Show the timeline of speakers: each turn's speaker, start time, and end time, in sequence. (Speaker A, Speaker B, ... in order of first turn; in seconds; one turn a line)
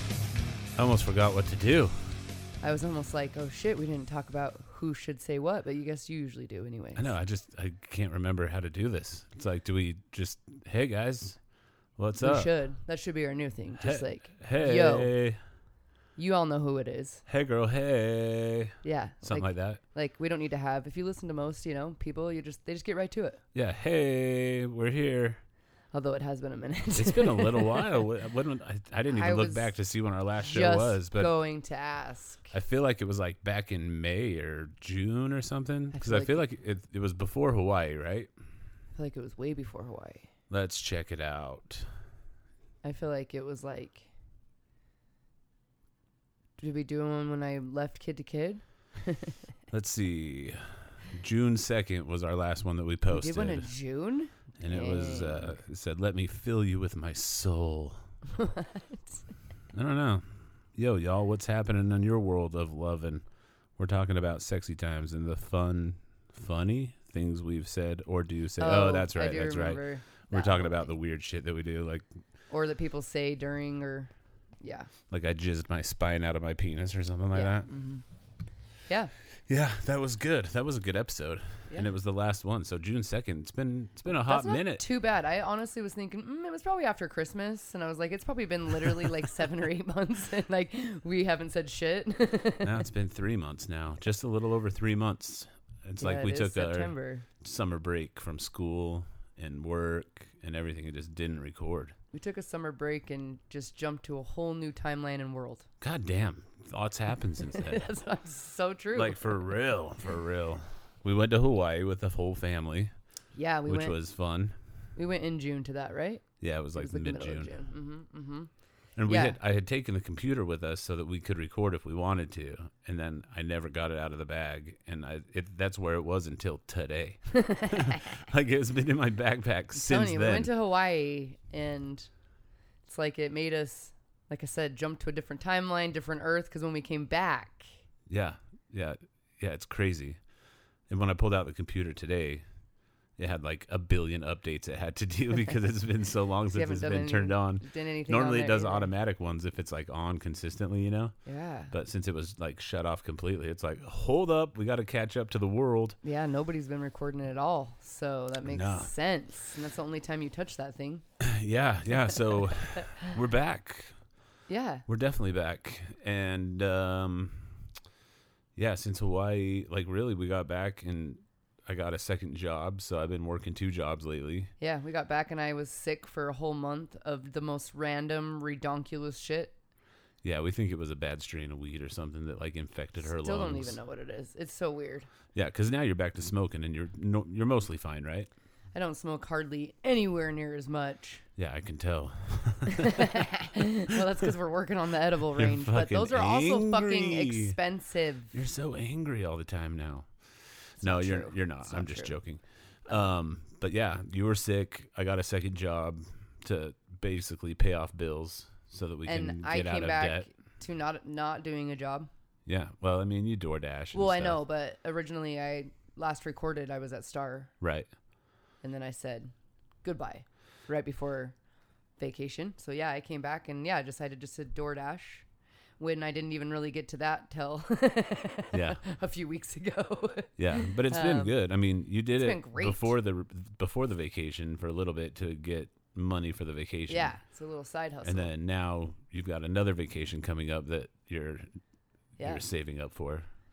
Speaker A: 0.8-1.9
Speaker B: 2.6-7.1
Speaker A: 7.0-11.4
Speaker A: 12.0-12.5
Speaker B: 12.2-15.1
Speaker A: 13.8-15.4
Speaker B: 16.2-17.2
Speaker A: 17.3-19.8
Speaker B: 18.8-23.4
Speaker A: 23.5-25.4
Speaker B: 25.9-28.0
Speaker A: 26.9-31.3
Speaker B: 29.1-29.7
Speaker B: 30.4-32.5
Speaker A: 32.5-38.3
Speaker B: 35.9-36.4
Speaker B: 39.0-40.3
Speaker A: 40.5-41.9
Speaker B: 42.8-44.1
Speaker B: 46.6-49.4
Speaker A: 49.7-50.6
Speaker A: 51.1-53.7
Speaker B: 53.1-55.6
Speaker A: 54.6-58.0
Speaker B: 58.3-59.1
Speaker A: 59.7-63.2
Speaker A: 63.8-72.0
Speaker B: 68.6-70.9
Speaker B: 72.5-74.1
Speaker B: 74.6-74.9
Speaker A: 75.1-77.7
Speaker B: 77.3-78.0
Speaker A: 79.5-84.8
Speaker B: 84.2-92.8
Speaker A: 92.6-102.0
Speaker B: 96.0-97.3
Speaker B: 102.1-105.7
Speaker A: 105.8-107.8
Speaker B: 107.5-109.3
Speaker A: 108.9-112.9
Speaker B: 113.3-114.0
Speaker A: 113.7-114.5
Speaker B: 115.0-118.5
Speaker A: 116.4-117.5
Speaker A: 119.0-130.5
Speaker B: 119.1-119.4
Speaker B: 127.3-128.2
Speaker B: 129.7-132.1
Speaker B: 132.8-137.7
Speaker A: 138.1-140.2
Speaker A: 140.9-142.4
Speaker A: 143.2-151.2
Speaker B: 146.5-148.9
Speaker B: 151.2-151.7
Speaker A: 151.7-156.0
Speaker B: 156.0-161.0
Speaker A: 158.4-158.9
Speaker A: 161.2-163.9
Speaker B: 161.9-163.1
Speaker B: 164.5-164.8
Speaker A: 164.9-167.5
Speaker A: 168.6-174.5
Speaker B: 174.6-179.5
Speaker A: 180.2-183.8
Speaker B: 183.0-185.1
Speaker A: 185.3-188.3
Speaker B: 188.7-191.2
Speaker A: 191.4-193.3
Speaker B: 192.7-198.3
Speaker A: 195.3-197.6
Speaker A: 198.3-200.1
Speaker A: 200.8-210.3
Speaker B: 200.8-202.2
Speaker B: 209.1-212.1
Speaker A: 212.4-214.4
Speaker B: 213.9-217.5
Speaker A: 217.6-217.9
Speaker B: 218.6-219.3
Speaker B: 219.8-221.3
Speaker B: 222.0-225.2
Speaker B: 225.8-231.3
Speaker A: 228.5-228.8
Speaker A: 230.4-237.1
Speaker B: 232.2-232.9
Speaker B: 236.9-238.3
Speaker A: 238.0-241.5
Speaker B: 242.2-242.4
Speaker A: 242.2-243.2